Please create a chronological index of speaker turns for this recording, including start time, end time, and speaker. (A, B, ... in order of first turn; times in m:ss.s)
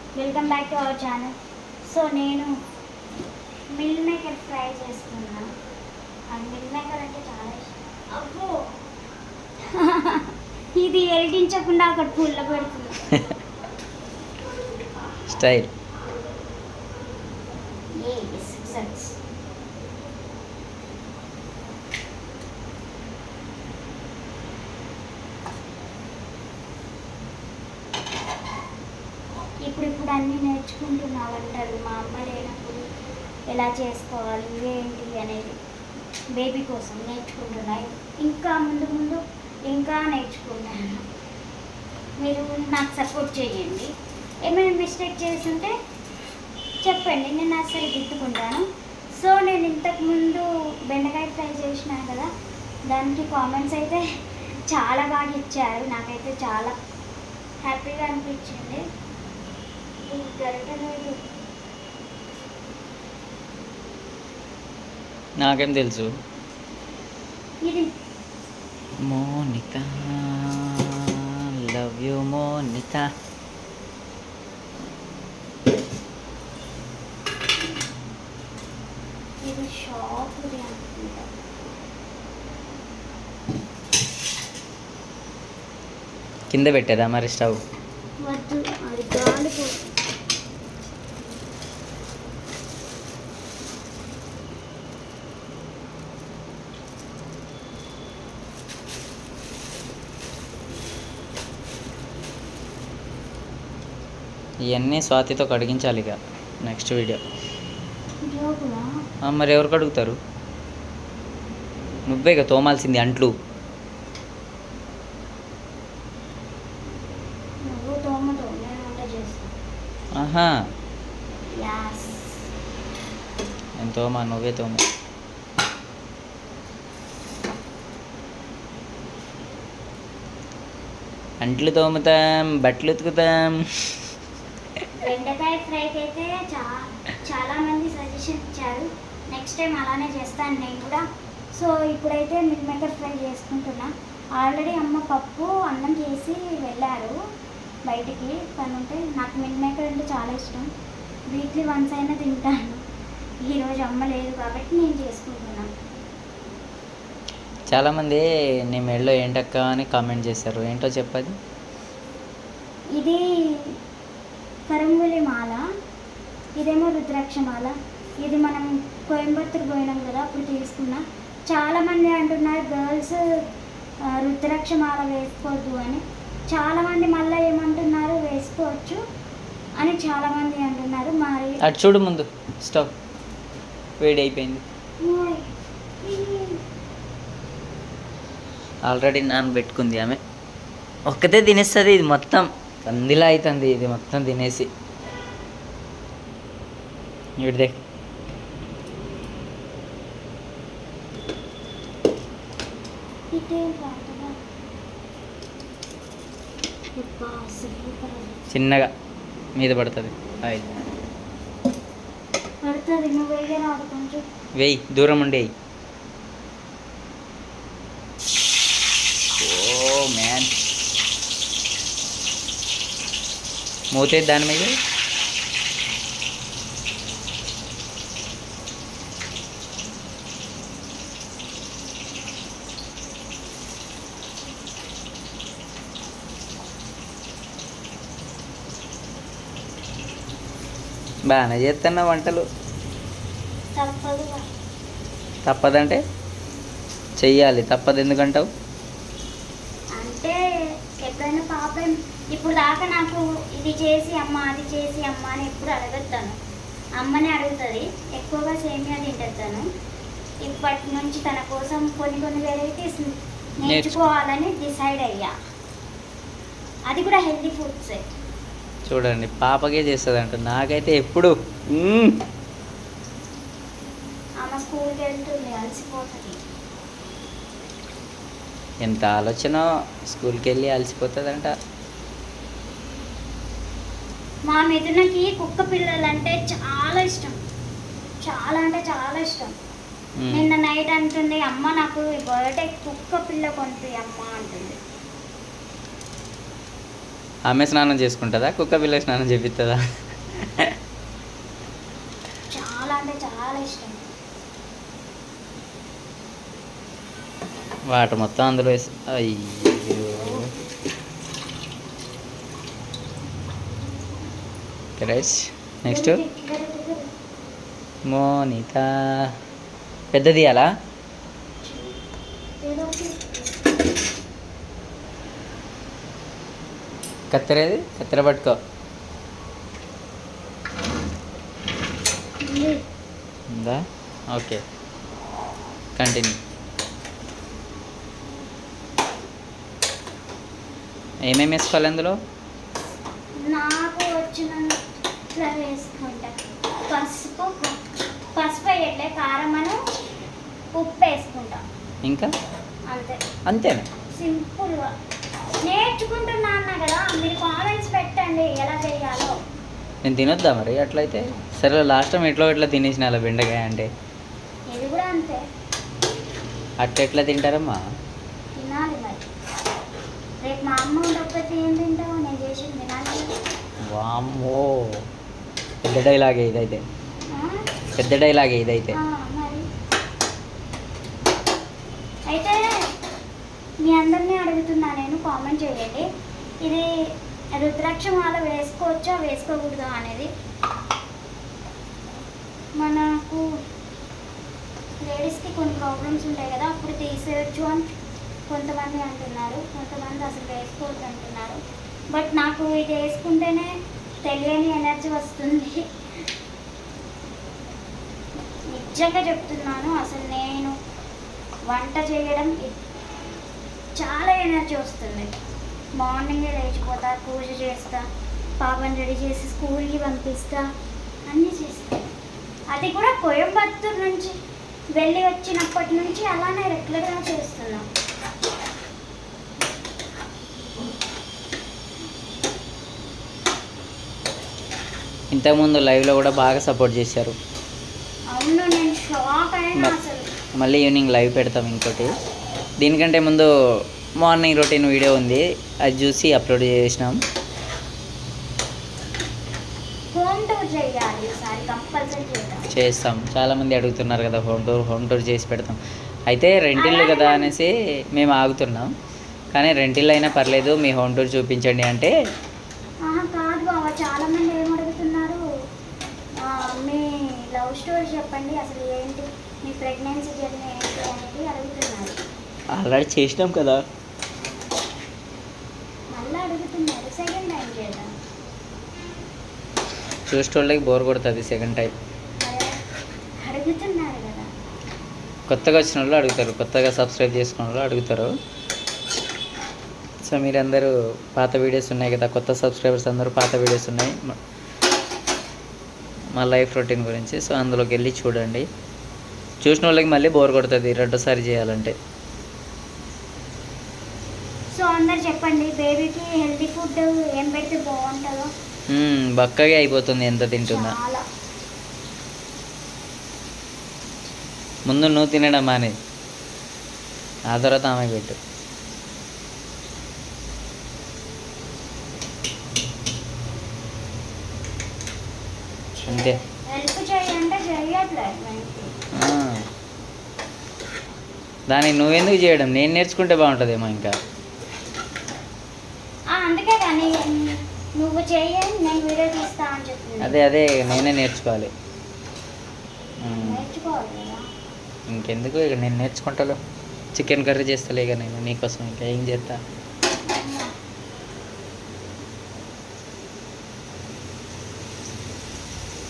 0:00.2-0:01.3 A
0:01.9-0:02.5 A
0:03.7-0:05.5 A
0:06.3-0:08.7 A
0:09.7-0:13.1 A
0:15.3-0:15.7 B
0:18.0-0:19.2 A
0:29.6-0:32.8 A
0:33.5-0:35.6 A
0:36.4-0:41.0 A
0:42.2-0:43.9 A
0:44.4-0:45.7 A
0:46.8-0:48.6 A
0:49.2-0:52.3 A
0:52.9-0:54.0 A
0:54.7-0:56.7 A
0:57.6-0:58.8 A
1:00.0-1:01.2 A
1:05.4-1:06.1 B
1:09.1-1:13.1 B
1:19.4-1:21.3 A
1:26.5-1:27.6 B
1:28.2-1:29.9 A
1:44.7-1:47.2 B
1:48.2-1:48.8 A
1:49.2-1:50.2 B
1:52.1-1:53.3 B
1:57.7-1:59.5 A
2:00.2-2:00.5 B
2:01.6-2:02.4 A
2:03.8-2:04.8 B
2:11.4-2:14.1 B
2:15.0-2:21.0 A
2:21.5-2:27.1 A
2:27.9-2:30.7 A
2:31.3-2:32.8 A
2:33.4-2:35.7 A
2:37.7-2:41.3 B
2:43.0-2:43.7 A
2:44.7-2:45.6 A
2:46.6-2:53.2 A
2:54.1-2:59.0 A
2:59.8-3:01.6 A
3:01.6-3:02.9 B
3:04.0-3:04.6 B
3:05.0-3:05.5 A
3:06.0-3:06.6 A
3:08.9-3:10.2 B
3:11.1-3:14.7 B
3:17.4-3:17.8 B
3:23.3-3:24.4 A
3:27.0-3:28.4 A
3:28.5-3:28.9 B
3:29.6-3:30.8 B
3:32.6-3:34.2 A
3:34.6-3:35.5 B
3:39.4-3:40.5 B
3:43.9-3:44.7 B
4:01.3-4:02.4 B
4:03.8-4:04.4 A
4:05.4-4:06.0 B
4:07.2-4:08.5 B
4:10.0-4:10.4 A
4:11.0-4:16.3 A
4:17.0-4:19.6 A
4:20.4-4:25.3 A
4:23.6-4:24.0 B
4:26.9-4:28.0 A
4:28.9-4:32.2 B
4:34.4-4:36.4 A
4:38.8-4:41.5 B
4:44.5-4:47.4 A
4:48.2-4:49.5 A
4:50.2-4:50.5 B
4:50.3-4:54.8 A
4:57.5-5:00.7 B
5:02.5-5:04.0 A
5:07.9-5:10.5 B
5:15.0-5:16.2 B
5:15.9-5:17.1 A
5:18.1-5:19.3 B
5:20.1-5:20.7 B
5:21.6-5:22.0 A
5:22.6-5:23.4 A
5:27.3-5:28.6 B
5:32.4-5:32.8 A
5:33.5-5:34.6 B
5:36.0-5:36.4 B
5:41.3-5:42.1 B
5:43.4-5:44.8 A
5:45.3-5:47.8 A
5:48.4-5:49.8 A
5:50.7-5:51.6 A
5:52.0-5:52.3 B
5:52.9-5:53.2 A
5:53.5-5:53.8 B
5:54.1-5:54.9 A
5:55.6-5:59.3 A
6:00.0-6:03.9 B
6:04.7-6:05.4 A
6:06.8-6:07.8 B
6:08.6-6:09.2 A
6:10.4-6:13.3 A
6:13.9-6:15.0 B
6:15.8-6:16.8 B
6:17.3-6:17.6 A
6:18.0-6:18.9 B
6:19.0-6:19.6 A
6:22.3-6:22.7 A
6:23.8-6:26.0 A
6:27.6-6:30.3 A
6:32.8-6:33.4 A
6:35.0-6:37.9 A
6:38.5-6:41.6 A
6:42.1-6:43.7 A
6:44.2-6:45.8 A
6:48.7-6:50.7 A
6:51.7-6:52.8 A
6:54.0-6:55.3 A
6:56.0-6:58.0 A
6:58.6-7:00.6 A
7:01.3-7:02.0 A
7:02.7-7:04.3 A
7:05.0-7:07.8 A
7:15.3-7:17.4 B
7:18.3-7:20.2 A
7:20.6-7:22.1 B
7:22.8-7:23.5 B
7:24.2-7:27.2 B
7:30.1-7:32.6 A
7:32.7-7:35.8 B
7:36.3-7:38.9 B
7:36.8-7:37.5 A
7:39.5-7:42.1 B
7:43.1-7:45.4 A
7:46.4-7:52.2 A
7:52.7-7:53.8 B
7:56.1-7:58.1 A
8:00.3-8:01.9 B
8:02.4-8:02.8 A
8:03.4-8:04.5 A
8:05.5-8:08.3 B
8:10.2-8:14.4 B
8:16.3-8:18.7 B
8:19.6-8:21.9 B
8:24.7-8:28.5 A
8:28.9-8:30.9 B
8:30.7-8:31.2 A
8:34.9-8:36.0 B
8:37.5-8:38.4 B
8:46.0-8:48.9 A
8:46.0-8:46.4 B
8:49.1-8:49.6 B
8:51.7-8:54.1 B
8:56.3-9:00.4 A
9:00.2-9:01.7 B
9:03.2-9:03.6 B
9:03.3-9:04.4 A
9:05.1-9:06.6 B
9:07.1-9:09.6 B
9:10.3-9:10.7 A